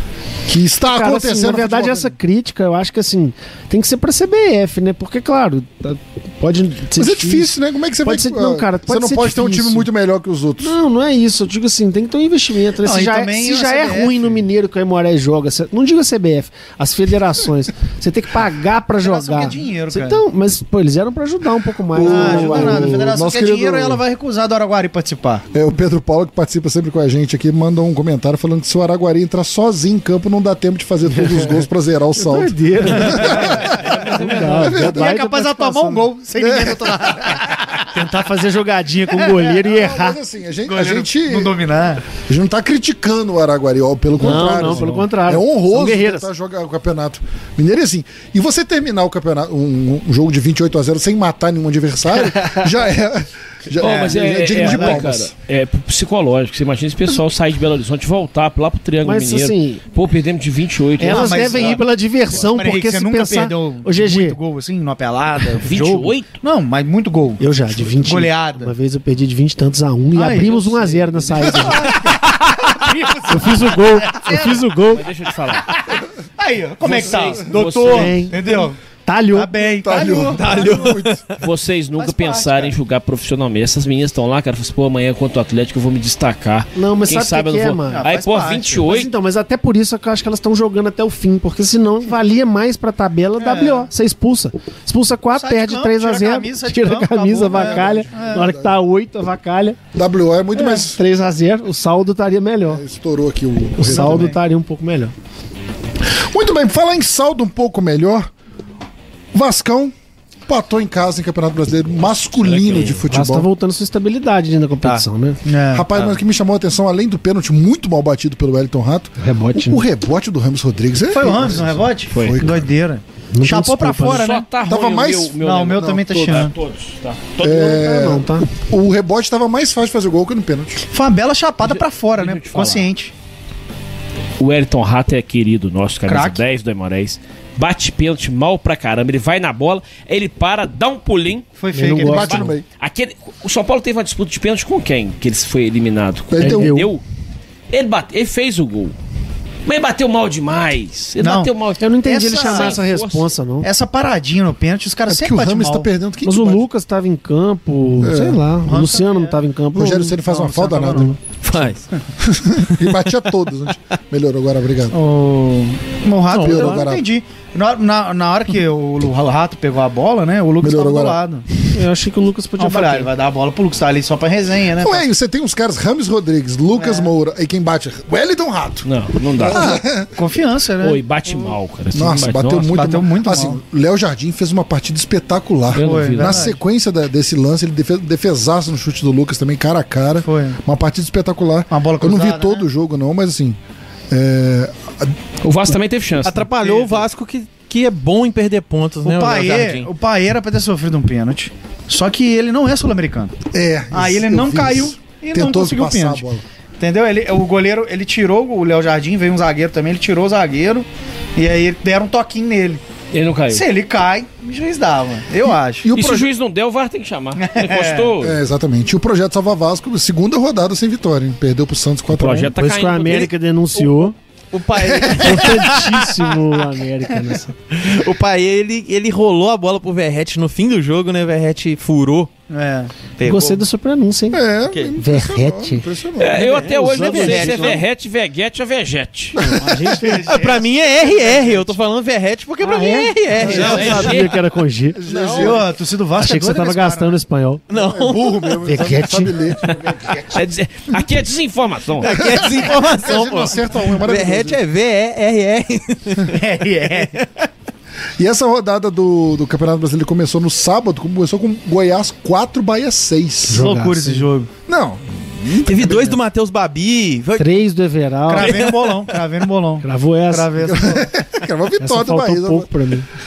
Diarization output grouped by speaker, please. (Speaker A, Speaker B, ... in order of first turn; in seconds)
Speaker A: 0.5-2.1, 7.0-10.8, 21.9-24.0, 25.5-34.0, 34.6-35.2, 36.4-37.4, 39.5-41.6, 42.2-55.3, 79.8-81.2, 97.5-98.7, 99.9-101.0, 102.7-104.3, 106.1-108.3, 109.3-109.9, 110.5-113.5, 115.7-122.7, 124.6-126.1, 127.4-130.8, 142.0-142.6, 146.3-146.8, 155.1-156.7, 158.0-158.4, 159.7-161.2, 162.2-164.9, 166.3-167.1, 170.6-171.2, 174.8-180.1, 181.9-193.6, 194.1-195.1, 203.5-206.4, 215.5-216.3, 218.2-222.5, 224.8-225.7, 234.3-236.6, 239.4-239.9, 243.4-244.1, 244.9-245.7, 247.7-250.4, 252.0-254.6, 258.2-263.7, 264.7-266.2, 270.6-272.7
Speaker B: 0.8-9.9, 10.6-23.0, 31.1-31.6, 32.1-36.1, 37.9-40.2, 44.2-46.2, 59.0-59.8, 61.0-64.4, 67.4-72.1, 73.3-75.0, 77.6-78.4, 79.0-79.5, 86.7-88.0, 88.8-99.8, 100.5-102.8, 103.8-105.1, 113.1-115.4, 119.2-119.8, 123.3-124.2, 127.5-128.5, 141.7-142.5, 146.4-146.9, 151.8-153.7, 156.2-160.2, 171.7-173.1, 222.5-224.1, 225.2-227.5, 233.2-234.4, 235.0-235.9, 236.6-237.8, 239.6-240.2, 242.6-245.0, 246.2-247.6, 248.6-249.3, 263.5-264.3, 267.4-268.6, 269.8-270.5, 271.8-273.1
Speaker C: 12.8-14.3, 19.0-20.2, 22.0-25.4, 34.4-37.9, 40.7-42.0, 53.8-55.0, 61.0-68.7, 70.1-74.7, 75.6-78.8, 79.3-81.0, 82.0-82.7, 87.9-88.8, 93.4-93.9, 95.3-98.5, 103.8-104.4, 115.4-115.9, 121.1-124.5, 125.4-126.5, 130.9-133.1, 136.1-136.4, 141.6-142.4, 151.2-151.5, 152.0-153.0, 153.6-155.9, 158.6-159.4, 160.2-161.2, 164.9-171.4, 172.6-175.0, 176.7-177.1, 179.5-181.0, 182.7-183.6, 185.7-186.6, 190.2-190.6, 191.7-192.7, 196.6-197.0, 199.0-203.3, 203.9-206.2, 206.8-212.8, 213.5-215.9, 217.4-218.2, 232.5-232.9, 239.8-240.7, 245.2-247.2, 256.2-257.2, 263.5-264.5, 268.3-271.1
Speaker D: 33.2-34.7, 44.2-45.1, 53.8-61.8, 65.6-66.3, 74.9-75.7, 76.8-78.2, 81.4-89.1, 112.4-113.0, 122.1-122.4, 124.0-127.8, 131.7-132.9, 134.4-141.5, 142.4-147.0, 147.7-148.9, 149.6-153.3, 178.8-179.8, 180.8-182.8, 185.7-186.5, 195.4-196.5, 213.1-213.7, 215.9-218.3, 222.1-223.3, 236.2-239.4, 243.5-244.4, 250.3-252.2
Speaker E: 80.4-81.4, 161.4-161.9, 166.3-166.8, 196.2-199.9, 223.8-225.8, 227.7-232.3, 233.2-233.6, 236.6-237.8, 240.2-244.3, 245.1-245.5, 247.7-248.6, 252.0-256.3, 265.6-267.6, 268.4-269.0